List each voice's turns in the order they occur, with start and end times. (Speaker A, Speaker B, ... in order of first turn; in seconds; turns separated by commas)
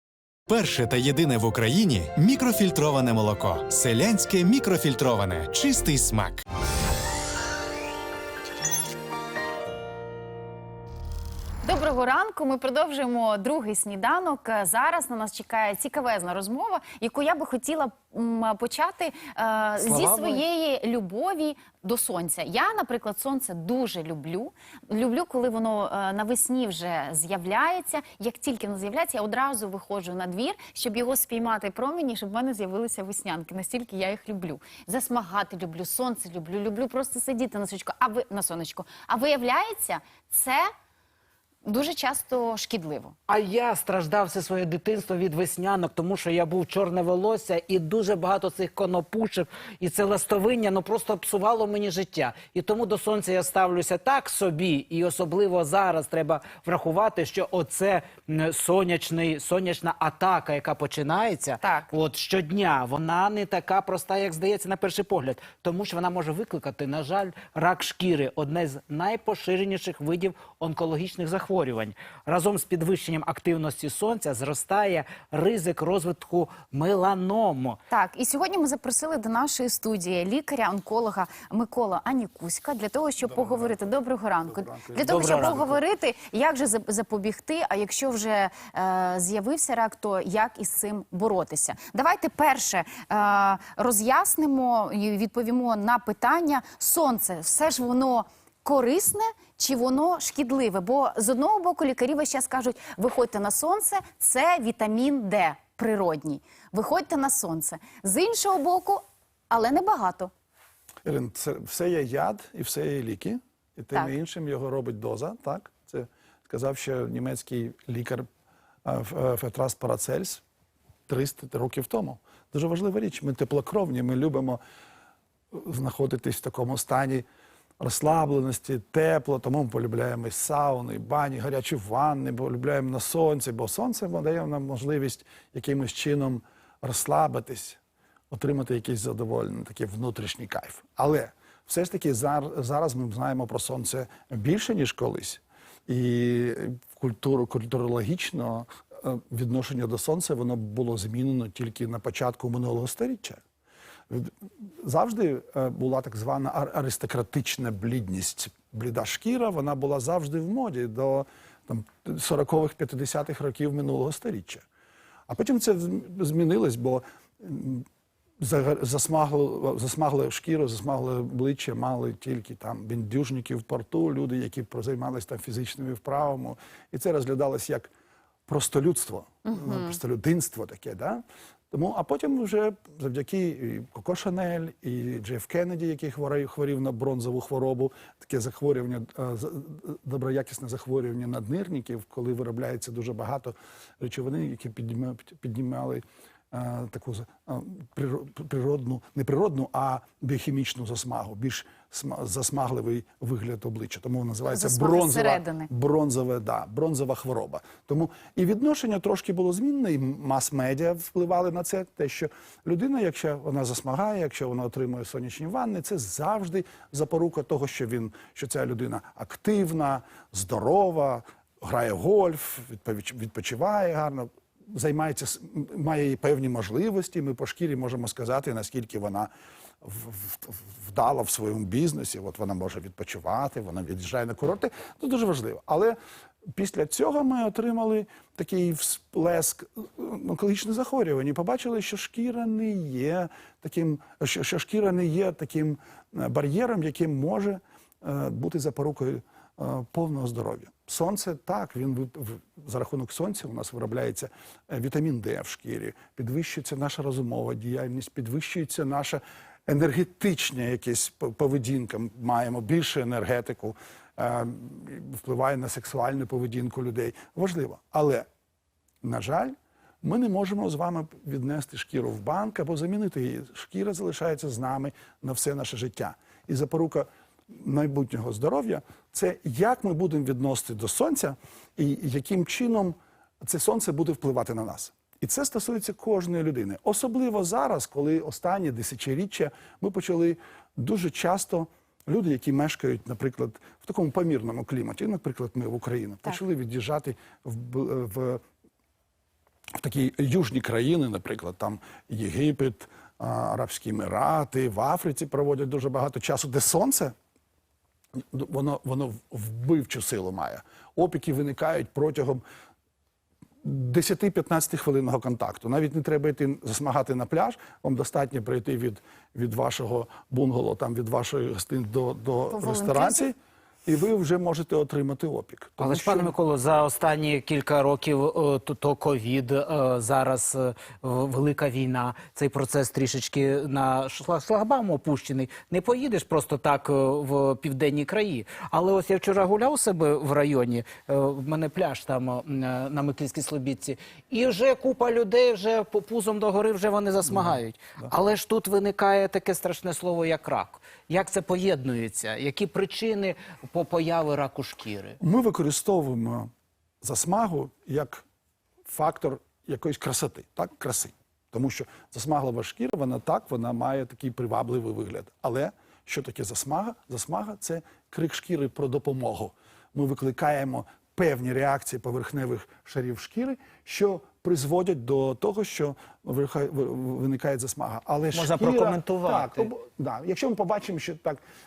Speaker A: 0.5-6.4, Speaker B: 11.6-40.7, Speaker C: 19.8-20.4, Speaker B: 41.6-43.2, Speaker C: 43.3-77.8, Speaker B: 61.6-61.9, Speaker B: 77.9-110.3, Speaker D: 83.2-85.8, Speaker C: 85.0-85.7, Speaker D: 111.0-118.3, Speaker D: 118.8-120.4, Speaker D: 121.1-124.6, Speaker D: 125.5-127.2, Speaker D: 127.8-137.8, Speaker D: 138.3-153.4, Speaker D: 154.1-164.6, Speaker D: 165.3-167.9, Speaker D: 168.4-177.9, Speaker D: 178.5-229.3, Speaker B: 179.5-179.9, Speaker B: 204.5-205.7, Speaker D: 229.8-236.0, Speaker D: 236.6-268.3, Speaker D: 269.0-298.4, Speaker D: 299.8-307.1, Speaker D: 308.3-312.4, Speaker D: 313.6-326.3, Speaker B: 322.5-323.3, Speaker C: 325.8-355.2, Speaker D: 347.3-347.6, Speaker D: 355.2-356.5, Speaker D: 357.0-358.2, Speaker D: 358.9-381.4, Speaker C: 378.3-379.7